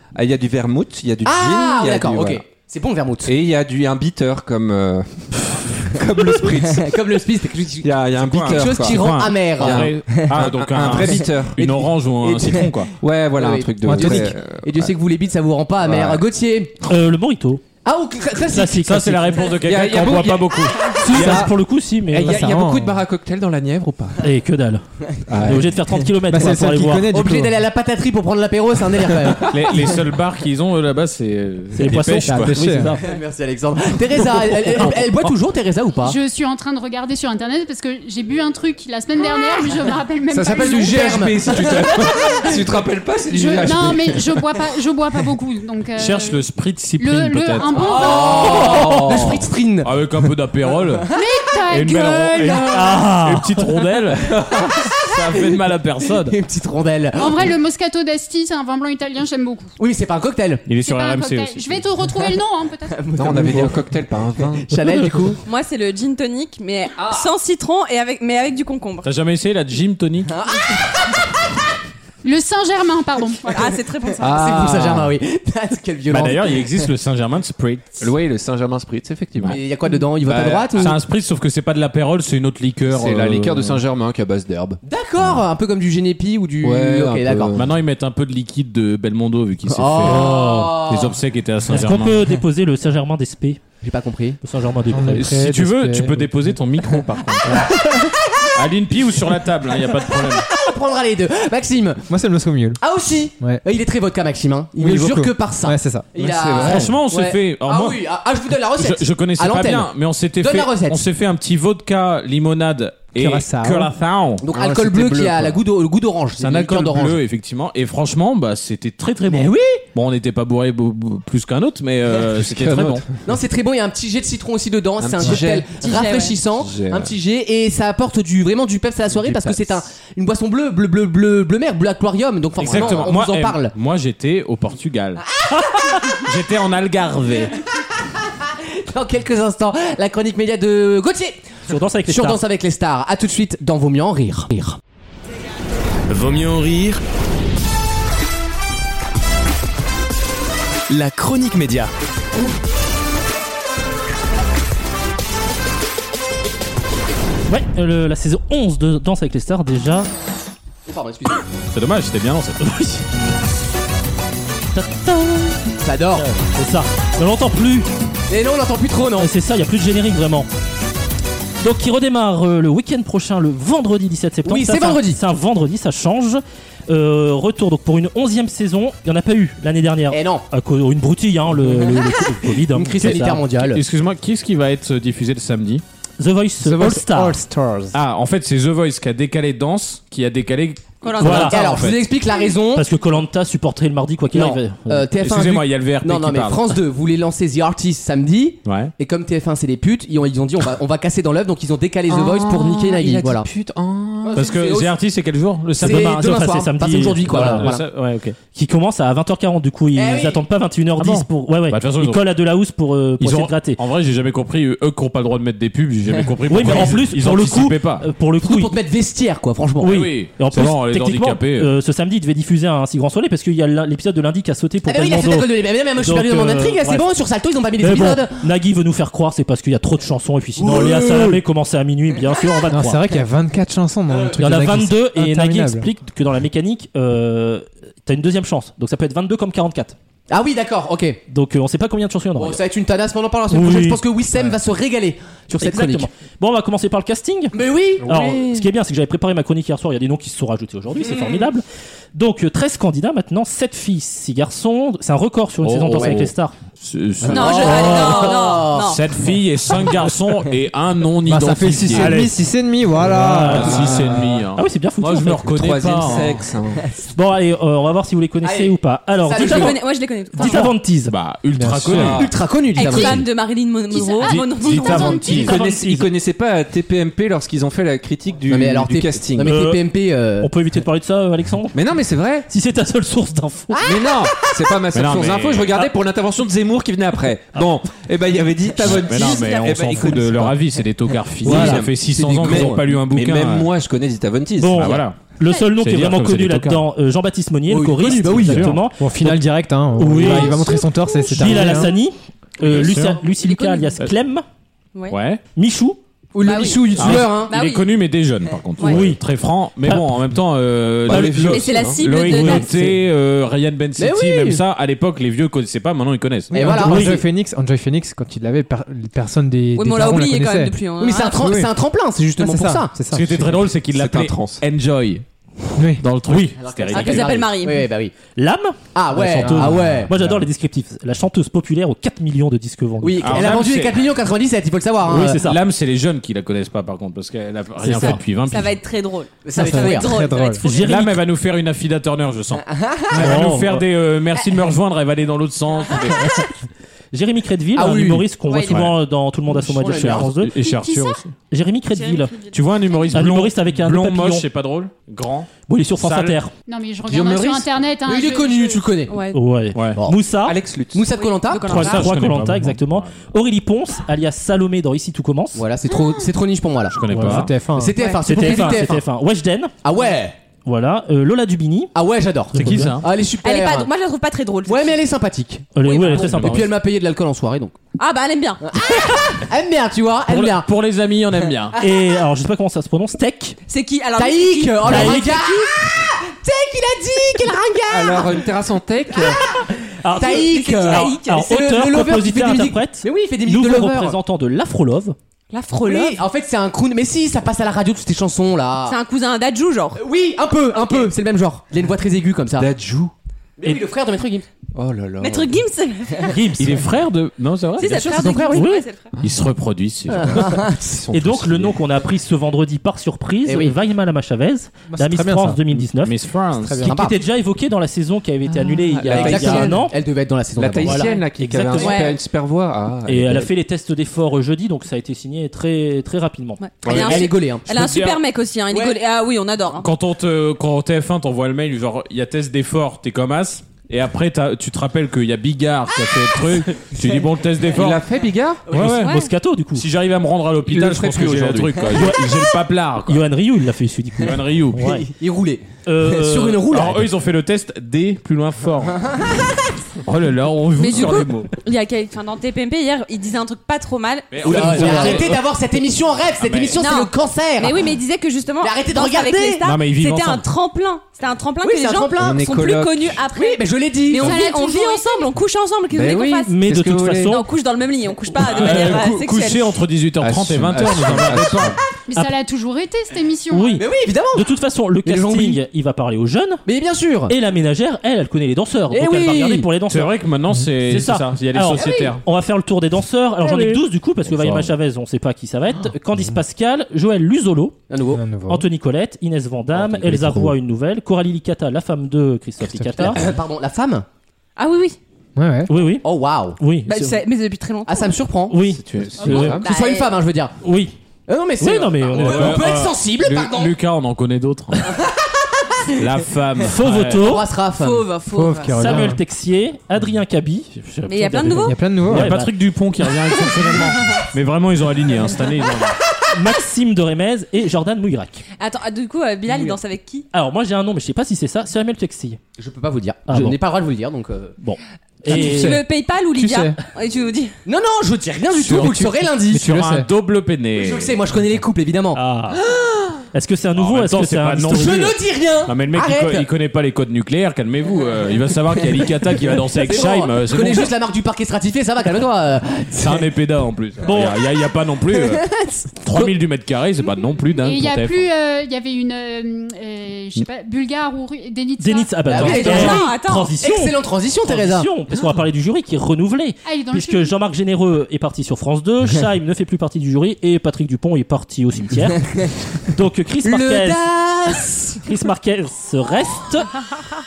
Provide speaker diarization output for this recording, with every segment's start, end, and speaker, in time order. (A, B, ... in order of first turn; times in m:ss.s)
0:00.1-0:02.4 A
0:01.2-0:03.3 B
0:03.2-0:06.9 A
0:06.2-0:10.3 B
0:07.8-0:11.6 A
0:08.6-0:12.9 C
0:11.6-0:12.7 B
0:13.0-0:14.9 A
0:13.3-0:16.8 B
0:13.8-0:14.3 D
0:15.8-0:16.2 A
0:16.9-0:17.6 E
0:17.8-0:18.9 B
0:18.5-0:19.4 E
0:18.8-0:21.5 C
0:19.6-0:20.9 A
0:21.0-0:22.4 E
0:21.0-0:21.5 D
0:22.1-0:24.2 A
0:22.2-0:23.0 D
0:24.2-0:24.8 E
0:25.3-0:25.7 A
0:25.4-0:27.1 E
0:26.3-0:27.6 D
0:27.1-0:29.9 B
0:29.3-0:32.6 C
0:31.8-0:33.0 E
0:32.2-0:32.9 D
0:33.0-0:36.2 B
0:34.8-0:35.1 E
0:36.0-0:42.5 F
0:40.3-0:44.5 A
0:40.5-0:41.8 B
0:43.3-0:43.7 B
0:43.6-0:46.4 F
0:46.0-0:51.1 C
0:47.0-0:48.8 F
0:47.7-0:49.4 A
0:47.7-0:49.9 B
0:51.1-0:52.9 F
0:51.7-0:56.4 C
0:52.7-0:53.6 E
0:54.6-0:55.5 B
0:56.2-0:57.5 B
0:57.2-0:59.7 F
0:59.8-1:00.6 B
1:00.7-1:01.8 C
1:00.8-1:03.1 F
1:02.9-1:05.4 B
1:03.2-1:04.7 A
1:05.4-1:09.1 G
1:07.0-1:07.3 B
1:09.0-1:10.3 C
1:10.3-1:11.0 B
1:12.2-1:13.5 F
1:13.4-1:14.7 G
1:14.2-1:16.8 B
1:14.2-1:15.1 A
1:16.1-1:18.0 C
1:18.0-1:19.6 A
1:19.5-1:20.9 B
1:20.2-1:20.9 A
1:20.8-1:23.8 C
1:22.9-1:25.4 A
1:24.8-1:27.5 B
1:26.6-1:27.7 A
1:27.5-1:32.3 C
1:29.7-1:31.1 B
1:30.0-1:30.8 E
1:31.7-1:33.6 E
1:33.8-1:34.4 B
1:34.4-1:35.3 E
1:34.9-1:36.5 D
1:35.1-1:37.7 C
1:37.7-1:38.5 B
1:38.5-1:40.5 C
1:40.4-1:42.0 B
1:42.1-1:42.8 D
1:42.8-1:51.0 B
1:44.8-1:46.5 D
1:46.2-1:46.9 A
1:46.6-1:48.0 C
1:48.8-1:54.4 C
1:53.1-1:53.9 D
1:54.4-1:57.2 B
1:54.5-1:55.4 A
1:54.6-1:55.5 D
1:56.4-2:03.0 C
1:59.3-1:59.8 B
2:02.2-2:03.1 A
2:03.2-2:13.7 B
2:05.0-2:05.8 A
2:05.8-2:06.4 G
2:06.5-2:07.1 A
2:09.2-2:09.7 A
2:12.6-2:15.2 C
2:12.7-2:13.1 A
2:15.4-2:16.0 B
2:16.0-2:17.6 C
2:18.4-2:21.5 B
2:21.7-2:22.4 E
2:22.0-2:24.8 B
2:26.1-2:27.0 H
2:30.9-2:31.9 H
2:37.5-2:40.1 E
2:40.9-2:41.4 B
2:41.7-2:42.7 C
2:42.6-2:43.0 E
2:44.7-2:47.9 E
2:45.8-2:46.3 B
2:48.3-2:49.3 B
2:49.1-2:50.5 E
2:51.6-3:03.4 E
2:54.4-2:55.2 B
3:00.1-3:00.4 B
3:02.7-3:03.8 B
3:03.6-3:05.8 C
3:06.2-3:07.4 E
3:06.6-3:08.0 D
3:07.9-3:12.0 C
3:11.0-3:11.8 G
3:11.2-3:11.5 E
3:11.2-3:12.9 B
3:12.7-3:15.0 E
3:14.3-3:23.5 B
3:15.2-3:16.7 C
3:18.6-3:18.9 C
3:22.1-3:24.5 A
3:24.2-3:25.0 B
3:24.3-3:26.4 C
3:25.8-3:27.7 E
3:25.8-3:27.8 B
3:27.2-3:28.3 C
3:28.4-3:33.8 E
3:29.9-3:30.4 B
3:31.0-3:32.2 C
3:33.2-3:38.1 C
3:36.5-3:38.7 E
3:36.6-3:36.9 B
3:38.4-3:40.0 B
3:39.8-3:47.0 E
3:39.8-3:41.7 C
3:44.8-3:48.4 B
3:47.8-3:53.0 E
3:50.6-3:51.4 B
3:52.7-3:55.9 D
3:54.1-3:54.4 B
3:54.4-4:00.0 E
4:00.3-4:01.2 B
4:01.3-4:02.6 E
4:02.4-4:06.1 B
4:03.5-4:04.0 E
4:05.6-4:16.6 E
4:07.5-4:08.6 B
4:11.0-4:11.4 B
4:15.6-4:18.2 C
4:16.0-4:16.2 B
4:17.2-4:19.0 G
4:17.2-4:18.9 B
4:17.6-4:18.4 E
4:18.8-4:22.3 C
4:21.2-4:24.3 D
4:21.9-4:22.3 E
4:23.0-4:25.5 E
4:23.0-4:26.4 C
4:23.5-4:24.4 A
4:25.4-4:26.8 A
4:27.1-4:29.8 E
4:28.4-4:29.8 B
4:29.4-4:30.8 G
4:30.3-4:31.1 E
4:30.4-4:30.7 B
4:31.1-4:32.3 C
4:31.5-4:32.2 D
4:31.9-4:32.3 A
4:32.1-4:33.2 B
4:32.7-4:35.5 G
4:34.2-4:35.5 C
4:34.9-4:39.5 A
4:35.0-4:36.1 E
4:38.5-4:40.5 B
4:39.4-4:39.8 E
4:40.4-4:41.8 E
4:41.7-4:42.5 A
4:42.5-4:43.8 E
4:43.7-4:44.1 G
4:43.8-4:50.6 A
4:44.9-4:45.8 C
4:48.8-4:53.7 C
4:51.4-4:55.0 A
4:51.4-4:51.8 E
4:52.2-4:52.8 B
4:54.6-4:59.4 E
4:54.8-4:55.2 C
4:55.8-4:56.8 C
4:57.7-4:58.7 B
4:58.2-4:58.8 C
4:59.0-5:01.9 D
5:00.0-5:00.7 E
5:00.1-5:00.4 C
5:00.6-5:00.8 G
5:01.3-5:04.4 E
5:02.6-5:03.2 C
5:03.2-5:04.0 G
5:05.1-5:05.4 C
5:05.5-5:06.0 E
5:06.3-5:07.5 B
5:06.4-5:07.9 G
5:07.0-5:16.5 C
5:08.8-5:09.2 E
5:09.8-5:10.1 E
5:11.0-5:12.0 A
5:11.1-5:13.0 E
5:11.5-5:12.7 G
5:14.0-5:14.6 B
5:16.5-5:21.7 D
5:16.5-5:17.2 B
5:16.6-5:17.2 E
5:19.7-5:21.4 G
5:21.0-5:22.9 B
5:22.4-5:23.7 D
5:23.1-5:25.2 C
5:23.9-5:24.6 A
5:25.8-5:26.0 D
5:26.0-5:27.5 C
5:26.2-5:26.6 E
5:26.6-5:28.1 B
5:26.9-5:27.9 G
5:28.4-5:33.5 E
5:28.9-5:30.1 B
5:29.4-5:30.2 C
5:33.0-5:35.4 B
5:33.2-5:34.0 C
5:35.0-5:35.6 E
5:35.3-5:38.8 C
5:37.8-5:38.2 E
5:38.0-5:41.0 G
5:39.4-5:40.1 B
5:39.6-5:40.6 D
5:40.6-5:41.1 E
5:40.6-5:46.4 C
5:42.6-5:43.2 B
5:43.1-5:43.8 E
5:47.1-5:50.5 E
5:47.7-5:48.3 B
5:48.4-5:48.9 G
5:48.6-5:49.0 C
5:49.6-5:51.3 C
5:49.8-5:50.2 B
5:50.6-5:51.2 F
5:51.5-5:52.4 E
5:51.9-5:53.2 G
5:52.5-5:56.4 C
5:53.1-5:54.4 E
5:55.7-5:56.5 E
5:56.6-5:58.8 F
5:57.0-5:57.8 A
5:58.0-5:59.2 B
5:59.1-5:59.4 G
5:59.3-6:00.6 E
5:59.7-6:00.0 C
6:00.4-6:01.0 A
6:00.9-6:01.8 B
6:01.2-6:02.1 G
6:01.7-6:03.1 C
6:01.7-6:05.6 E
6:05.5-6:07.0 B
6:06.9-6:07.5 C
6:07.1-6:07.5 E
6:07.1-6:07.9 D
6:07.8-6:09.0 B
6:07.9-6:08.8 G
6:08.2-6:09.7 E
6:09.8-6:10.3 B
6:10.6-6:11.9 E
6:11.9-6:13.9 B
6:12.5-6:13.0 E
6:12.5-6:13.0 C
6:13.4-6:15.0 G
6:14.6-6:17.7 B
6:15.7-6:16.7 E
6:16.1-6:16.7 C
6:18.0-6:19.0 G
6:18.6-6:20.7 B
6:20.3-6:21.8 C
6:21.8-6:23.6 E
6:23.7-6:25.4 G
6:24.2-6:28.4 B
6:24.8-6:25.5 E
6:27.9-6:29.4 A
6:30.0-6:35.2 E
6:30.0-6:31.6 G
6:30.1-6:34.2 B
6:35.5-6:36.2 G
6:35.8-6:39.0 B
6:38.8-6:40.0 G
6:40.0-6:42.7 B
6:42.6-6:43.1 A
6:43.6-6:44.4 B
6:44.7-6:45.6 A
6:45.2-6:46.4 G
6:46.3-6:46.8 E
6:46.6-6:48.6 C
6:47.8-6:49.1 G
6:48.2-6:48.8 E
6:49.2-6:50.6 C
6:50.1-6:51.0 B
6:50.2-6:51.7 A
6:51.1-6:56.2 E
6:53.4-6:53.7 B
6:54.9-6:55.9 D
6:56.0-6:56.9 C
6:56.6-6:56.9 D
6:56.8-6:59.9 E
6:56.8-6:57.2 B
6:58.6-6:59.9 A
6:59.0-7:01.1 B
7:00.6-7:03.5 A
7:00.8-7:02.0 E
7:01.0-7:01.2 G
7:01.7-7:02.2 G
7:03.0-7:06.6 E
7:06.6-7:09.9 G
7:06.8-7:08.2 C
7:06.9-7:07.7 B
7:08.7-7:09.0 B
7:09.8-7:18.0 C
7:17.7-7:18.7 A
7:18.7-7:23.2 C
7:18.9-7:19.3 G
7:19.0-7:19.8 E
7:20.6-7:22.0 A
7:21.9-7:22.4 E
7:23.0-7:25.1 E
7:24.2-7:24.9 C
7:24.8-7:27.0 B
7:25.8-7:26.8 E
7:26.7-7:29.1 C
7:30.0-7:31.5 C
7:30.8-7:35.2 G
7:34.3-7:35.4 C
7:34.4-7:37.8 B
7:36.4-7:36.8 C
7:36.7-7:46.6 G
7:38.6-7:39.6 B
7:39.6-7:40.5 C
7:41.6-7:42.4 B
7:42.2-7:43.2 A
7:43.3-7:44.4 B
7:44.2-7:45.2 F
7:45.9-7:47.4 A
7:46.4-7:47.4 E
7:47.2-7:49.8 G
7:48.3-7:51.8 C
7:50.2-7:51.8 A
7:52.1-7:53.8 F
7:53.5-7:56.6 E
7:53.7-7:54.5 B
7:55.0-7:55.6 B
7:56.6-7:57.3 B
7:57.3-8:00.2 E
7:58.9-7:59.7 B
7:59.9-8:02.2 C
8:00.8-8:07.8 E
8:01.8-8:02.1 B
8:04.3-8:04.7 C
8:07.9-8:08.2 B
8:08.1-8:08.7 D
8:08.5-8:13.2 E
8:10.1-8:10.5 D
8:12.6-8:13.1 D
8:13.1-8:14.0 B
8:14.6-8:15.0 G
8:15.4-8:15.7 D
8:15.7-8:16.0 E
8:16.0-8:16.6 B
8:16.6-8:17.2 E
8:16.8-8:18.2 G
8:17.8-8:18.6 B
8:18.5-8:19.6 E
8:18.7-8:19.6 A
8:19.2-8:20.1 G
8:19.3-8:20.5 B
8:20.6-8:20.9 E
8:21.3-8:23.7 B
8:21.6-8:22.6 E
8:22.1-8:25.0 C
8:25.9-8:27.2 C
8:26.6-8:27.5 E
8:27.2-8:28.1 B
8:27.7-8:29.1 G
8:28.3-8:29.2 D
8:28.8-8:32.5 E
8:31.0-8:31.8 G
8:31.6-8:32.3 D
8:32.1-8:36.0 C
8:36.3-8:38.4 E
8:38.6-8:40.3 G
8:40.3-8:42.4 E
8:42.6-8:44.5 B
8:43.3-8:43.6 E
8:44.6-8:45.8 E
8:45.2-8:47.5 G
8:45.3-8:45.8 B
8:46.3-8:46.8 D
8:47.6-8:49.6 B
8:48.6-8:51.2 C
8:48.6-8:50.1 D
8:50.7-8:52.2 B
8:52.1-8:52.6 E
8:52.8-8:53.2 A
8:53.3-8:55.1 E
8:53.8-9:00.9 C
8:54.7-8:56.5 B
8:59.8-9:03.3 B
9:03.0-9:05.5 C
9:04.0-9:04.4 E
9:05.5-9:06.3 B
9:06.0-9:08.3 C
9:07.6-9:12.3 F
9:11.8-9:24.1 E
9:12.3-9:14.9 B
9:12.3-9:13.5 G
9:16.6-9:17.3 F
9:23.4-9:25.0 B
9:25.0-9:26.8 E